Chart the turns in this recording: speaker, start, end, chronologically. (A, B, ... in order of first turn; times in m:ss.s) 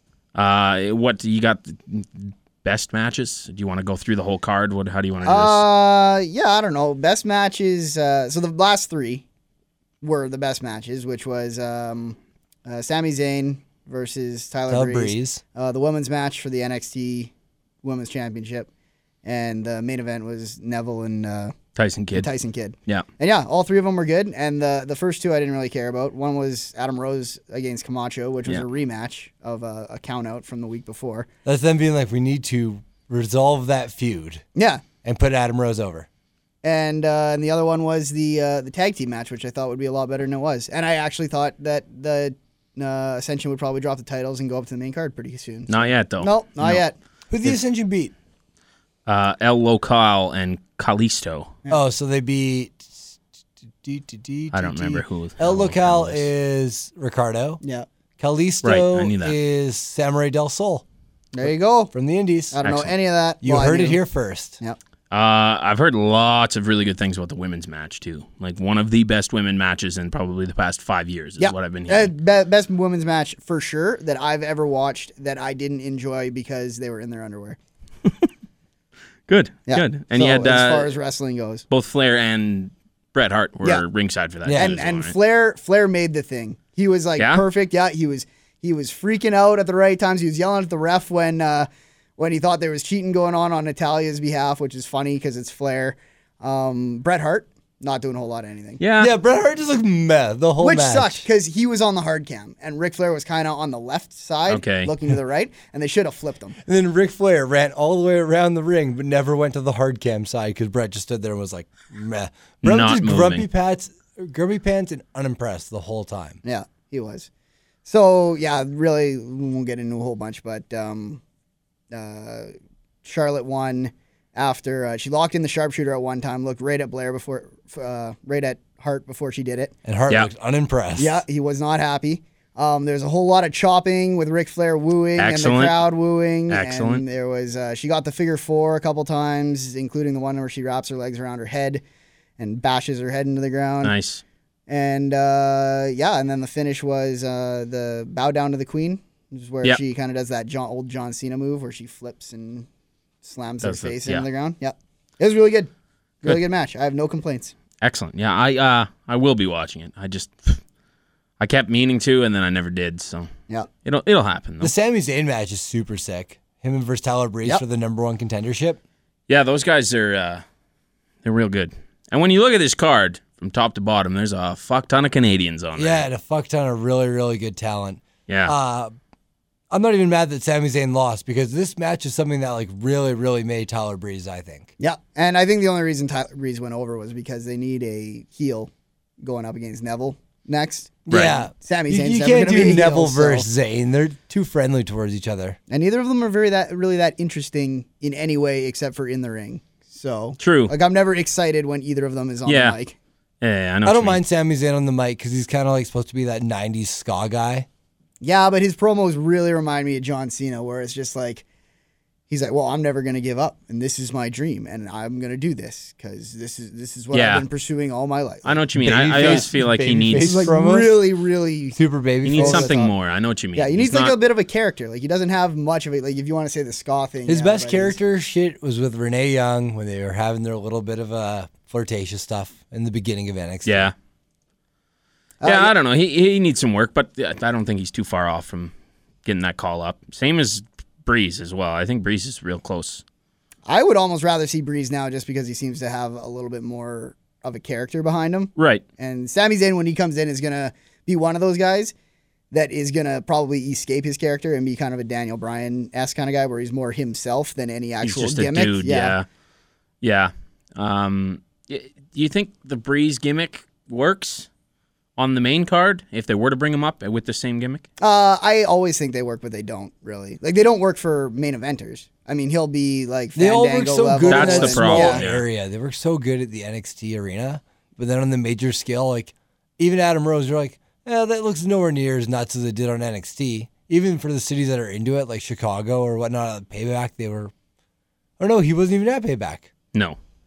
0:00.4-0:05.6 A
0:05.2-0:09.2 B
0:10.0-0:17.3 B
0:14.7-0:15.4 C
0:17.8-0:18.7 B
0:19.2-0:21.6 B
0:21.8-0:22.3 A
0:22.1-0:31.3 B
0:31.4-0:34.4 C
0:34.6-0:34.8 B
0:35.0-0:36.1 C
0:36.6-0:47.0 B
0:45.7-0:46.8 A
0:47.3-0:48.1 C
0:49.1-0:51.5 A
0:51.7-0:53.2 C
0:53.8-0:57.6 C
0:54.5-0:56.3 A
0:57.6-0:57.9 B
0:58.2-1:00.8 C
0:58.6-0:59.4 A
1:01.3-1:01.9 B
1:01.4-1:02.6 C
1:02.5-1:04.0 B
1:02.6-1:02.9 A
1:03.4-1:04.6 C
1:05.1-1:12.1 A
1:11.4-1:17.6 B
1:19.3-1:20.9 A
1:19.7-1:21.6 B
1:21.7-1:25.1 A
1:24.5-1:24.8 C
1:24.6-1:38.8 B
1:27.2-1:27.4 A
1:38.8-1:39.1 A
1:39.0-1:41.3 C
1:40.6-1:46.6 B
1:44.5-1:44.9 A
1:46.6-1:56.4 C
1:52.6-1:53.4 A
1:56.4-1:57.3 B
1:57.8-2:01.2 B
2:01.9-2:02.5 B
2:03.0-2:09.7 B
2:09.8-2:11.2 C
2:11.0-2:21.8 B
2:15.2-2:15.8 A
2:16.5-2:17.0 A
2:22.4-2:23.9 B
2:23.8-2:24.2 A
2:24.7-2:32.7 B
2:33.2-2:35.7 B
2:33.6-2:34.2 A
2:36.2-2:37.5 B
2:37.8-2:40.6 A
2:41.4-2:43.3 A
2:43.8-2:44.7 A
2:44.6-2:48.8 C
2:49.3-2:50.4 A
2:51.2-2:56.1 A
2:55.8-2:58.9 C
2:58.3-2:58.5 A
2:59.7-3:04.7 C
3:04.8-3:11.0 B
3:11.1-3:15.6 C
3:11.1-3:11.4 A
3:11.5-3:13.5 B
3:15.7-3:23.0 B
3:20.4-3:20.7 A
3:22.5-3:22.8 A
3:23.4-3:24.2 A
3:23.8-3:27.7 C
3:28.2-3:31.4 B
3:32.3-3:38.6 B
3:37.1-3:37.4 A
3:38.4-3:40.4 A
3:38.8-3:41.0 C
3:39.1-3:39.5 B
3:40.1-3:41.8 B
3:41.8-3:42.7 C
3:42.2-3:44.2 A
3:42.3-3:42.9 B
3:43.6-3:48.0 B
3:47.3-3:53.9 C
3:53.6-3:53.9 A
3:55.4-3:55.7 B
3:55.4-3:58.7 A
3:59.2-4:03.0 A
4:03.7-4:11.9 B
4:08.6-4:08.8 A
4:12.5-4:19.2 B
4:18.0-4:19.2 A
4:20.0-4:24.5 A
4:25.2-4:27.9 A
4:28.0-4:35.2 B
4:33.4-4:47.5 C
4:34.2-4:35.4 A
4:48.4-4:49.7 C